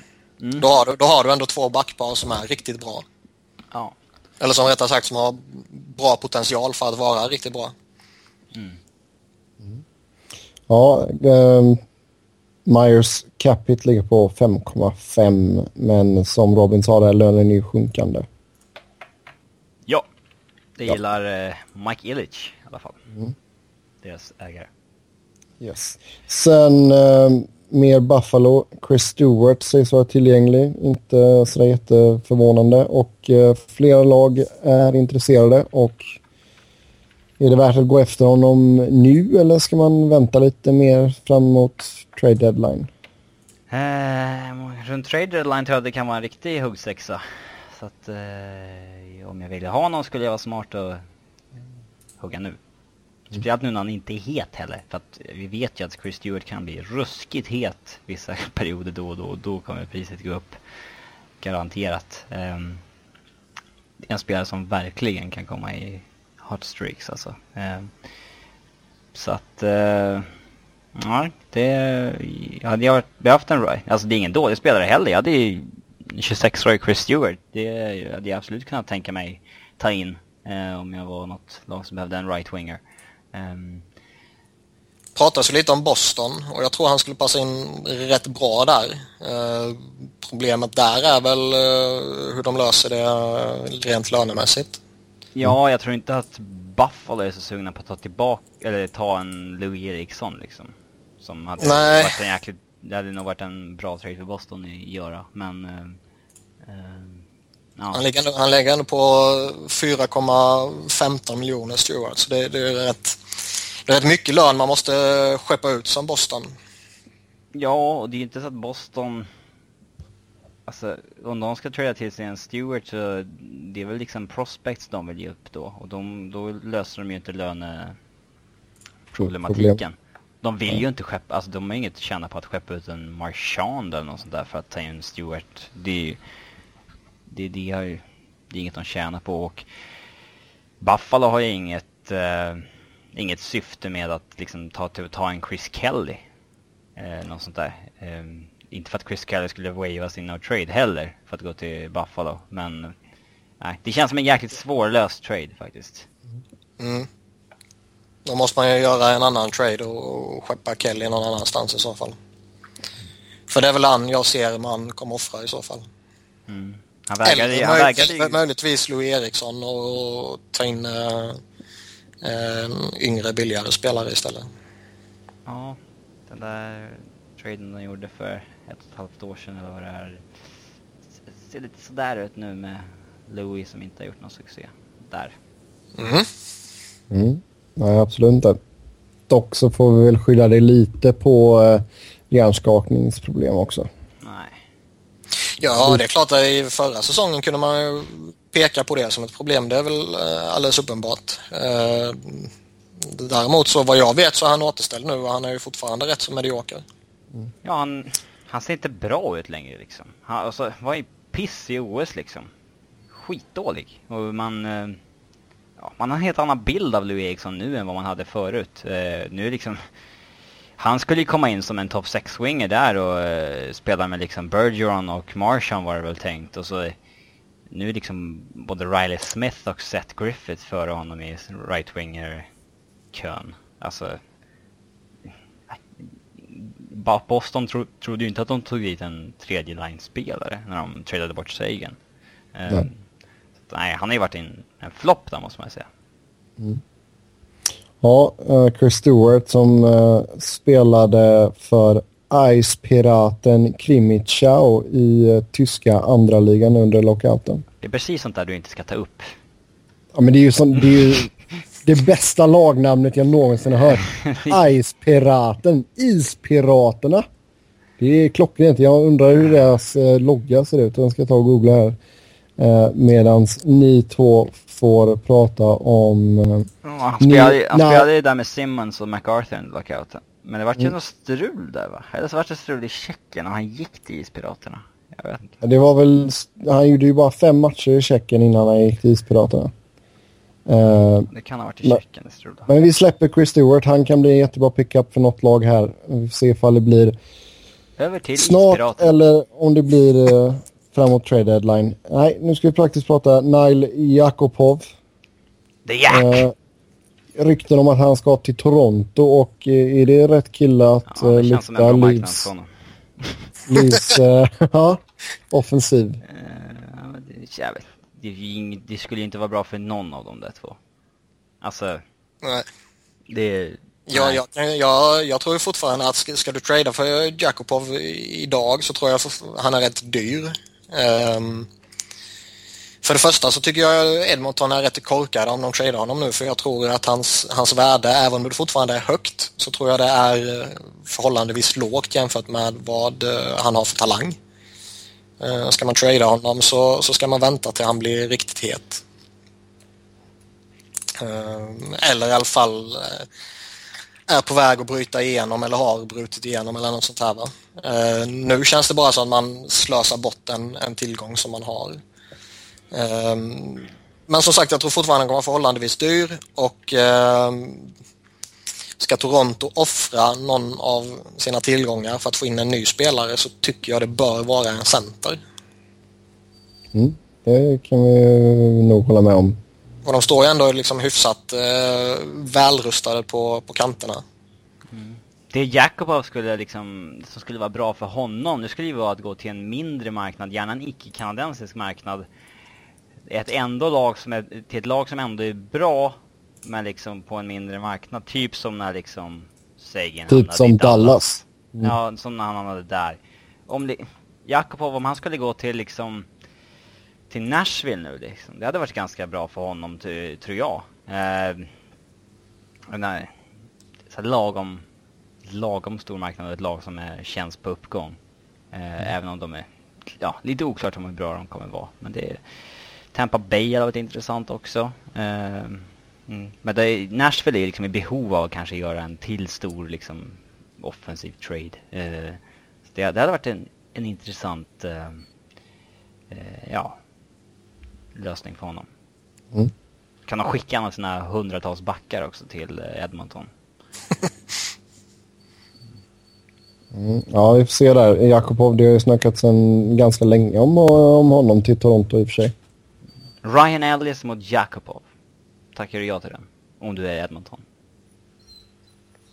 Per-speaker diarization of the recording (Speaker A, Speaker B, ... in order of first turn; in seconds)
Speaker A: 0.4-0.7, 20.8-23.0, 24.0-24.7, 43.7-51.0, 52.2-52.6, 53.3-60.6, 61.4-62.8, 64.1-67.9, 69.1-70.3, 70.9-82.8, 83.3-83.8, 95.3-106.0, 106.6-107.2, 107.8-108.0, 117.5-119.3, 120.7-128.0, 129.1-136.2, 137.3-139.6, 140.8-146.2, 146.9-152.9, 153.6-156.1, 166.5-168.4, 175.4-180.2, 181.3-185.3, 194.2-194.5, 207.6-212.5, 213.1-215.0, 215.8-219.8, 220.8-226.9, 227.7-232.5, 233.1-234.2, 235.7-242.0, 242.5-242.9, 243.7-245.9, 257.8-259.3, 264.1-264.6, 276.8-285.6, 291.3-292.7, 298.0-299.1, 305.9-306.4, 311.1-313.5, 316.2-320.8, 321.6-322.0, 323.3-324.4, 384.9-392.3, 393.2-401.2, 401.8-406.3, 407.3-411.7, 412.9-413.3, 414.1-414.8, 415.4-418.2, 418.7-422.6, 423.1-432.4, 432.9-435.2, 436.3-437.0, 438.1-438.9, 440.3-443.5, 453.4-455.0, 455.7-457.6
Speaker B: 0.6-3.0, 4.4-7.7, 85.1-94.8, 101.6-102.1, 107.9-116.5, 156.8-157.1, 158.2-162.2, 163.5-165.8, 167.2-171.4, 172.2-174.4, 186.0-186.3, 195.6-206.8, 322.4-322.7, 324.1-331.7, 333.0-344.4, 345.4-349.0, 351.1-353.3, 354.3-362.0, 362.9-367.9, 369.0-375.4, 380.0-384.2
Speaker C: 10.7-11.8, 12.7-18.2, 25.6-36.0, 37.4-42.9, 129.2-129.8, 187.1-188.6, 189.3-193.9, 248.0-257.6, 260.1-261.3, 261.8-267.2, 268.0-272.0, 272.6-276.7, 277.2-278.1, 285.6-289.7, 290.7-291.3, 292.7-297.1, 298.4-304.8, 306.1-306.5, 307.4-312.5, 313.7-316.2, 376.9-379.6, 400.3-401.9, 446.9-452.5